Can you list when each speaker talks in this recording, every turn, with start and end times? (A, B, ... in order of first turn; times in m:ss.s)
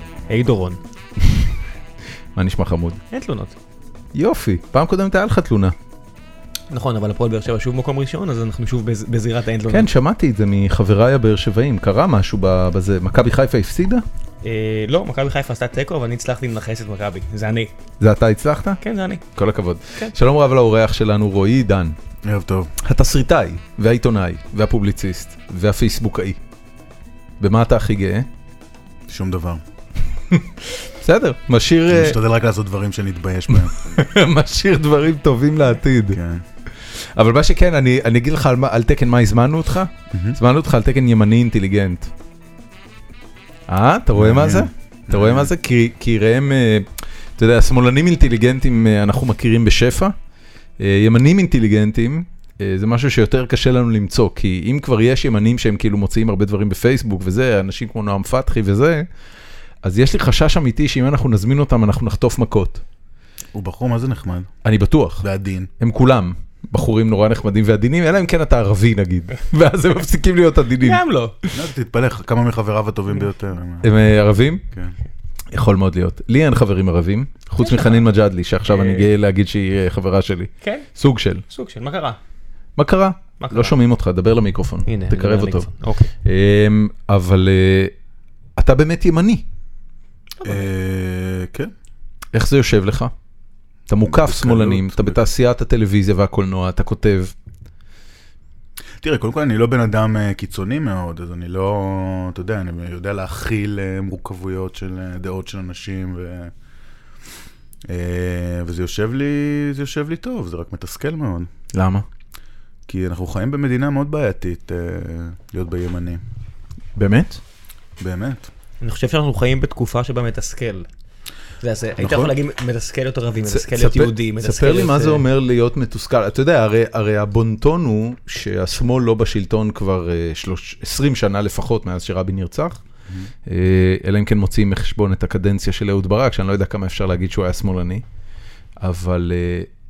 0:00.3-0:00.8 A
0:02.4-0:03.0 B
0:03.1-0:03.6 A
0:04.1-0:05.8 B
0:06.7-0:09.9 A
0:09.7-0:14.0 B
0:14.4-0:17.7 A
0:18.0-0:18.8 B
0:18.8-0:19.2 A
0:19.4-0:22.0 B
0:22.2-0:22.7 C
0:22.8-0:26.4 B
0:27.4-0:28.3 B
0:29.1-0:29.6 C
0:30.3-0:32.2 B
0:31.9-0:34.0 C
0:33.5-0:36.2 B
0:36.1-0:36.4 C
0:36.7-0:42.1 B
0:40.1-0:40.4 C
0:43.7-0:50.1 B
0:44.1-0:45.5 C
0:50.8-0:59.1 B
0:59.8-1:02.8 B
1:03.5-1:04.5 C
1:04.6-1:05.3 B
1:05.2-1:05.7 C
1:05.8-1:11.0 B
1:10.8-1:11.6 A
1:11.5-1:13.9 C
1:13.8-1:14.6 B
1:15.5-1:21.4 B
1:17.6-1:18.0 A
1:18.6-1:19.1 A
1:21.5-1:22.2 A
1:22.8-1:25.7 B
1:23.4-1:23.7 A
1:24.9-1:26.1 A
1:26.2-1:27.9 B
1:28.6-1:29.4 B
1:30.4-1:31.7 C
1:32.3-1:33.1 B
1:33.9-1:37.3 B
1:34.0-1:35.2 C
1:39.0-1:46.5 C
1:47.9-1:51.5 C
1:51.7-1:52.0 B
1:52.9-1:56.2 C
1:57.0-1:57.4 B
1:58.0-1:58.5 C
1:58.8-2:00.9 A
2:01.6-2:05.2 A
2:02.0-2:02.3 C
2:03.5-2:12.8 B
2:13.5-2:18.0 B
2:18.8-2:19.7 B